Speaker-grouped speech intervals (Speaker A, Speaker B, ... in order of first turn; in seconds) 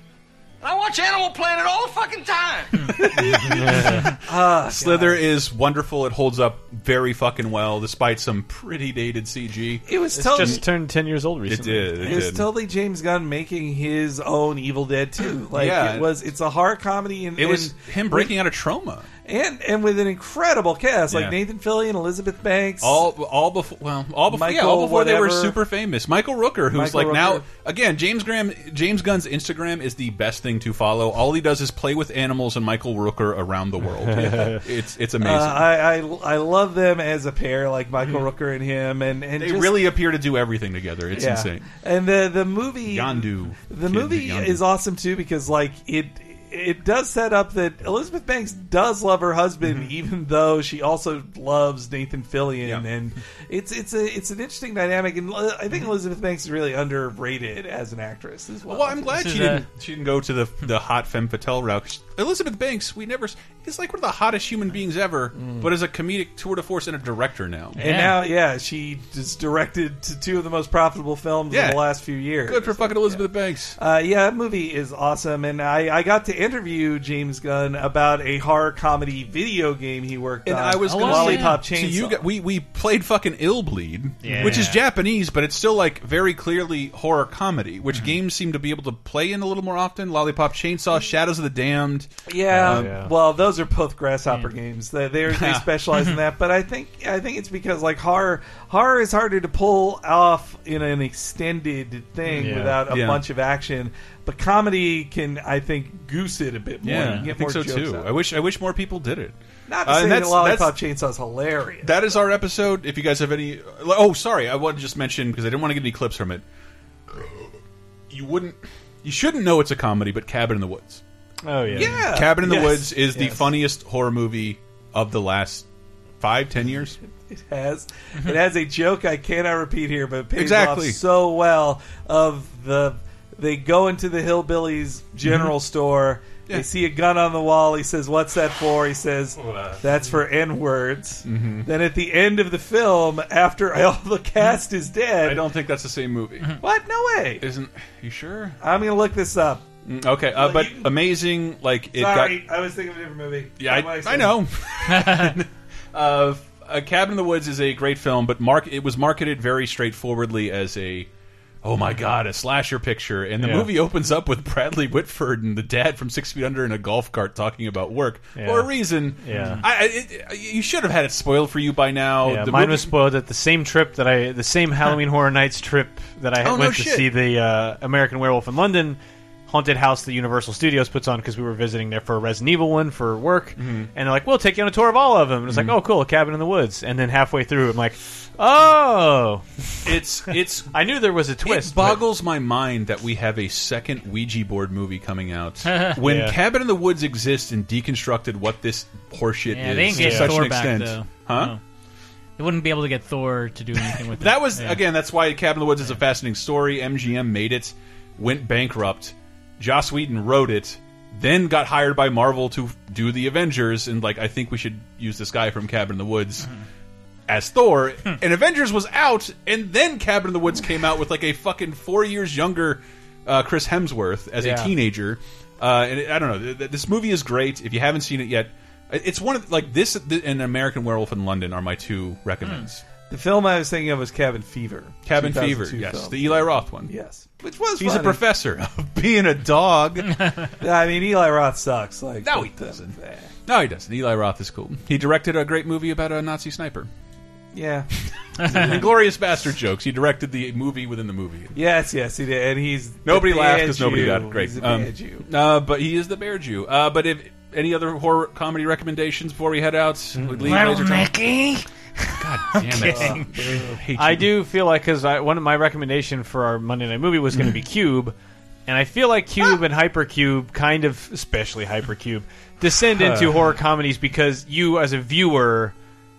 Speaker A: 0.6-2.7
Speaker B: 2.9-3.6, 4.2-5.2, 9.9-10.6, 12.0-18.3, 19.2-23.0, 24.3-25.6, 26.7-27.5, 35.2-39.8, 41.1-59.2, 65.3-65.7, 67.8-73.2, 73.8-82.2, 92.3-108.1, 109.7-112.2, 121.7-123.5, 127.1-145.4, 146.6-147.4, 148.6-149.7, 150.3-150.9, 151.9-154.4, 233.1-238.2, 240.6-243.3, 247.5-247.9, 251.5-255.2, 262.8-263.8
Speaker C: 3.2-3.5, 4.7-10.6, 11.5-12.5, 15.5-16.1, 17.4-19.1, 21.1-21.4, 22.8-35.6, 39.4-41.7, 42.9-44.6, 58.7-67.8, 71.5-71.8, 72.4-73.8, 80.5-92.9, 95.3-95.6, 102.9-103.2, 106.8-110.7, 111.8-116.4, 117.1-117.5, 118.1-121.0, 121.7-125.7, 126.2-127.0, 130.3-131.0, 135.2-135.5, 141.2-141.7, 145.2-146.6, 147.4-148.6, 149.8-152.4, 153.6-161.1, 161.6-172.9, 176.4-177.1, 183.6-183.9, 185.5-185.8, 189.8-190.7, 191.4-201.5, 204.2-216.5, 217.3-232.8, 235.1-236.9, 237.8-240.1, 242.2-246.9, 248.4-251.5, 253.1-261.1, 262.2-264.3, 272.9-273.4
Speaker D: 3.6-4.0, 10.2-12.2, 34.1-34.6, 84.2-84.7, 92.6-93.1, 102.3-102.8, 121.4-122.1, 163.4-163.7, 168.4-169.6, 172.2-189.7, 190.7-192.0, 196.0-196.3, 199.9-200.4, 224.4-224.7, 260.2-260.6, 264.0-268.1, 268.7-275.8
Speaker E: 59.2-59.7, 67.8-68.2, 80.8-81.6, 84.3-84.7, 106.9-107.2, 154.9-155.3, 169.3-169.7, 195.7-195.9, 199.5-201.6, 202.4-204.8, 248.4-248.8, 260.4-263.6